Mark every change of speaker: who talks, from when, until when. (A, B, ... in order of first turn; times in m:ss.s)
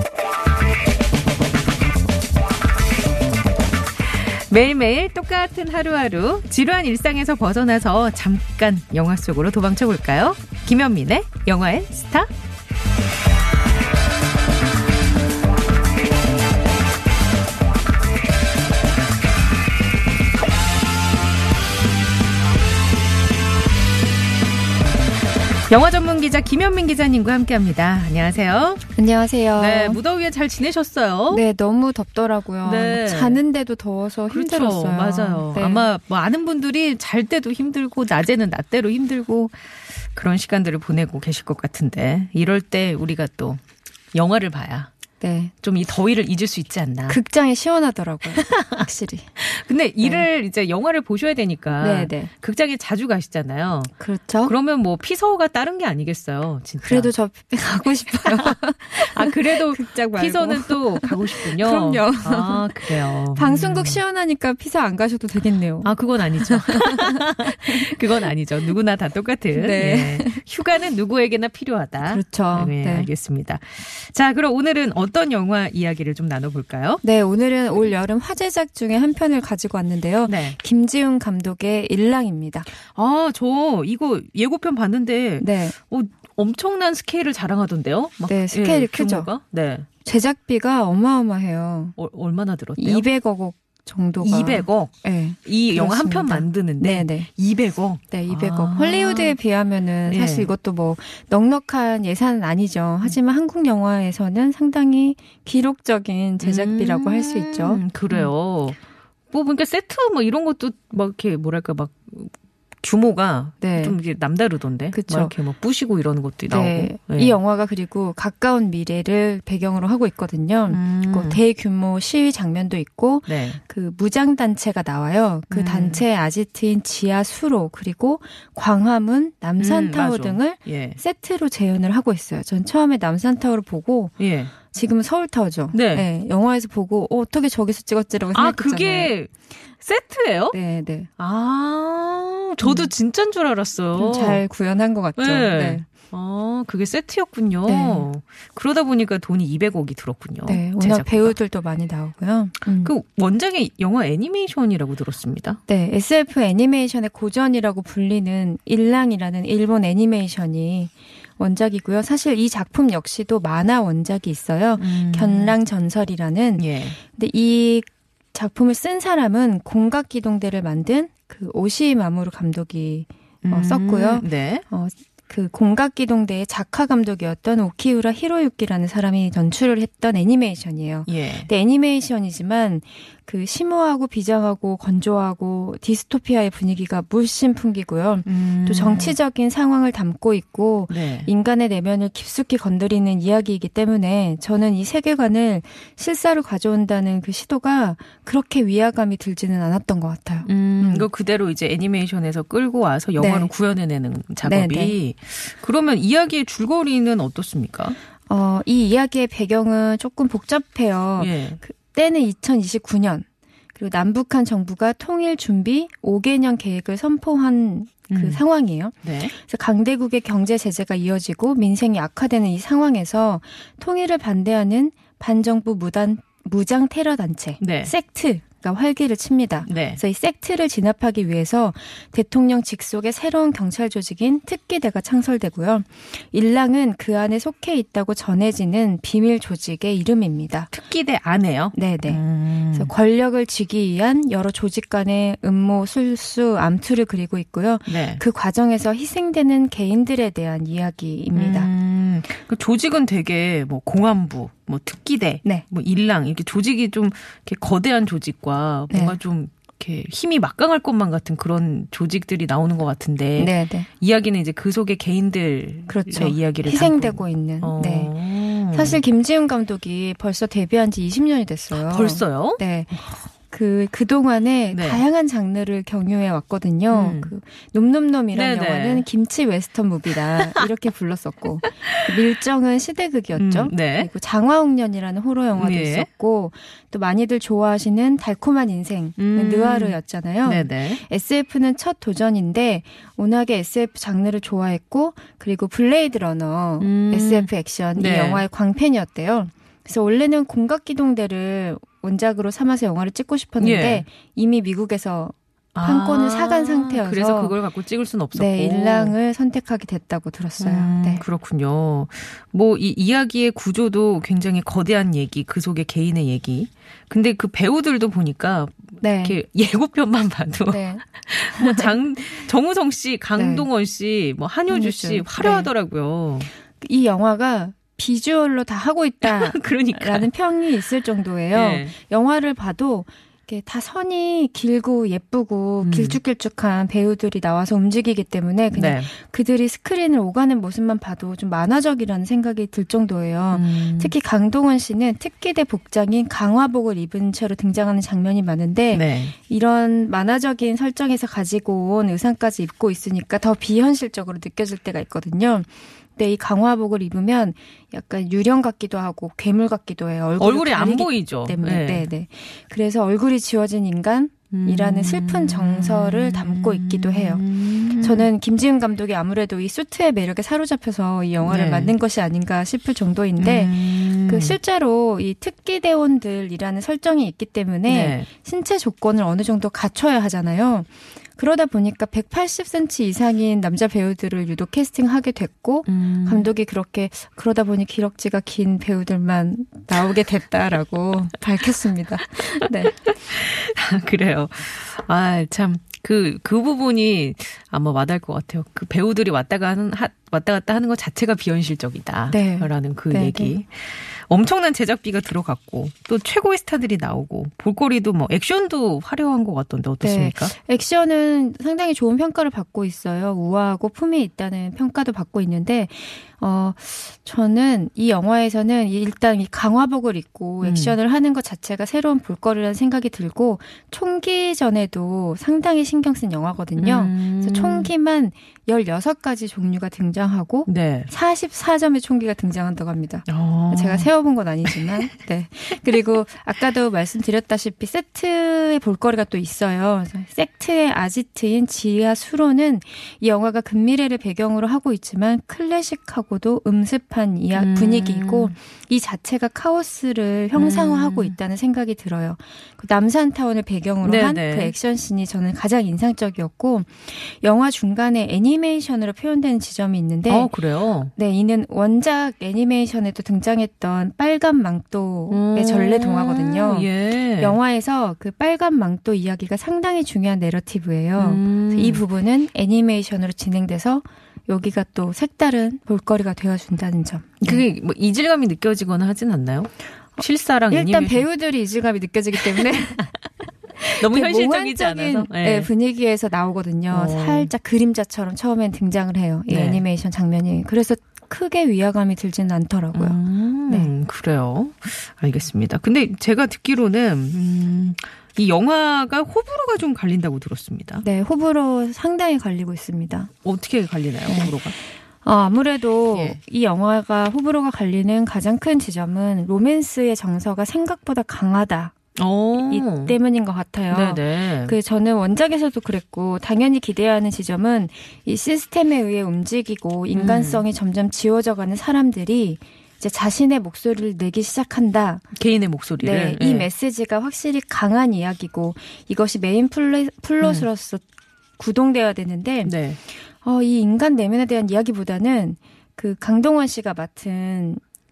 0:04.0-0:12.3 A
0:25.7-0:28.8 A
0:29.0-0:30.0 B
0:29.6-0:31.4 A
0:31.3-0:35.9 B
0:32.6-0:33.4 A
0:34.3-0:43.6 A
0:44.1-0:44.9 A
0:45.2-0:45.5 B
0:45.6-0:47.2 A
0:47.1-0:49.3 B
0:48.3-0:48.9 A
0:49.4-0:53.9 A
0:50.0-0:50.3 B
0:51.8-0:52.3 B
0:54.0-0:54.6 B
0:54.4-0:57.1 A
0:56.8-1:08.3 B
0:58.2-1:04.0 A
1:05.8-1:17.0 A
1:09.5-1:10.4 B
1:12.0-1:13.1 B
1:17.0-1:22.7 B
1:20.3-1:20.6 A
1:22.9-1:29.9 A
1:25.4-1:25.8 B
1:28.3-1:29.3 B
1:30.0-1:32.0 B
1:32.0-1:33.1 A
1:32.8-1:37.3 B
1:34.2-1:39.4 A
1:38.1-1:48.3 B
1:40.1-1:40.5 A
1:46.4-1:48.8 A
1:49.3-1:57.4 A
1:53.6-1:54.0 B
1:54.9-1:55.3 B
1:56.5-2:19.1 B
2:00.7-2:01.4 A
2:03.3-2:03.6 A
2:05.5-2:06.0 A
2:09.6-2:11.0 A
2:14.2-2:14.5 A
2:15.7-2:16.1 A
2:18.3-2:20.6 A
2:20.5-2:21.1 B
2:21.2-2:24.4 A
2:22.6-2:22.9 B
2:24.0-2:25.8 B
2:25.2-2:31.4 A
2:27.6-2:28.1 B
2:30.5-2:32.9 B
2:32.8-2:35.6 A
2:35.7-3:21.1 B
2:44.8-2:45.6 A
2:46.6-2:47.0 A
2:53.4-2:54.6 A
3:01.1-3:01.5 A
3:08.3-3:09.2 A
3:10.9-3:11.3 A
3:20.4-3:28.0 A
3:23.2-3:23.5 B
3:24.4-3:25.0 B
3:28.3-4:00.7 B
3:31.2-3:31.6 A
3:38.1-3:38.4 A
3:39.0-3:39.3 A
3:47.6-3:47.9 A
3:49.7-3:50.0 A
4:00.7-4:02.9 A
4:01.7-4:11.7 B
4:07.9-4:08.2 A
4:11.4-4:29.0 A
4:18.9-4:19.2 B
4:23.4-4:23.9 B
4:25.9-4:28.1 B
4:28.6-5:07.6 B
4:31.7-4:33.0 A
4:34.7-4:35.0 A
4:36.9-4:37.3 A
4:38.3-4:39.1 A
4:40.4-4:40.7 A
4:41.8-4:42.2 A
4:43.4-4:44.1 A
4:45.6-4:46.1 A
4:49.2-4:51.0 A
4:56.8-4:58.4 A
5:03.6-5:04.1 A
5:05.7-5:09.1 A
5:08.3-5:11.2 B
5:10.6-5:26.5 A
5:19.0-5:19.4 B
5:20.7-5:21.9 B
5:23.4-5:23.7 B
5:24.7-5:25.7 B
5:26.8-6:07.4 B
5:29.2-5:30.3 A
5:31.5-5:32.0 A
5:35.8-5:36.2 A
5:38.7-5:39.1 A
5:43.5-5:44.2 A
5:48.9-5:49.4 A
6:00.4-6:02.1 A
6:04.5-6:08.3 A
6:08.0-6:33.0 B
6:11.4-6:11.9 A
6:13.4-6:14.6 A
6:17.9-6:18.3 A
6:25.9-6:26.5 A
6:33.1-6:50.5 A
6:42.3-6:43.6 B
6:50.0-7:40.5 B
7:00.6-7:01.0 A
7:06.8-7:07.9 A
7:10.7-7:11.1 A
7:13.3-7:14.1 A
7:14.7-7:15.1 A
7:27.5-7:28.6 A
7:30.6-7:31.4 A
7:34.0-7:34.7 A
7:40.3-7:41.1 A
7:41.2-7:57.6 B
7:45.3-7:47.6 A
7:51.2-7:52.0 A
7:57.4-8:01.2 A
8:00.2-8:03.1 B
8:02.4-8:03.1 A
8:03.8-8:13.9 B
8:03.9-8:05.7 A
8:06.9-8:07.5 A
8:09.5-8:09.8 A
8:13.0-8:21.1 A
8:21.0-8:23.3 B
8:23.4-8:24.7 A
8:24.3-8:31.9 B
8:26.1-8:26.4 A
8:32.2-8:33.2 A
8:32.7-8:45.3 B
8:33.9-8:34.8 A
8:40.1-8:40.7 A
8:45.4-8:46.7 A
8:46.0-8:51.0 B
8:50.4-8:50.7 A
8:51.6-8:57.8 B
8:52.7-8:53.0 A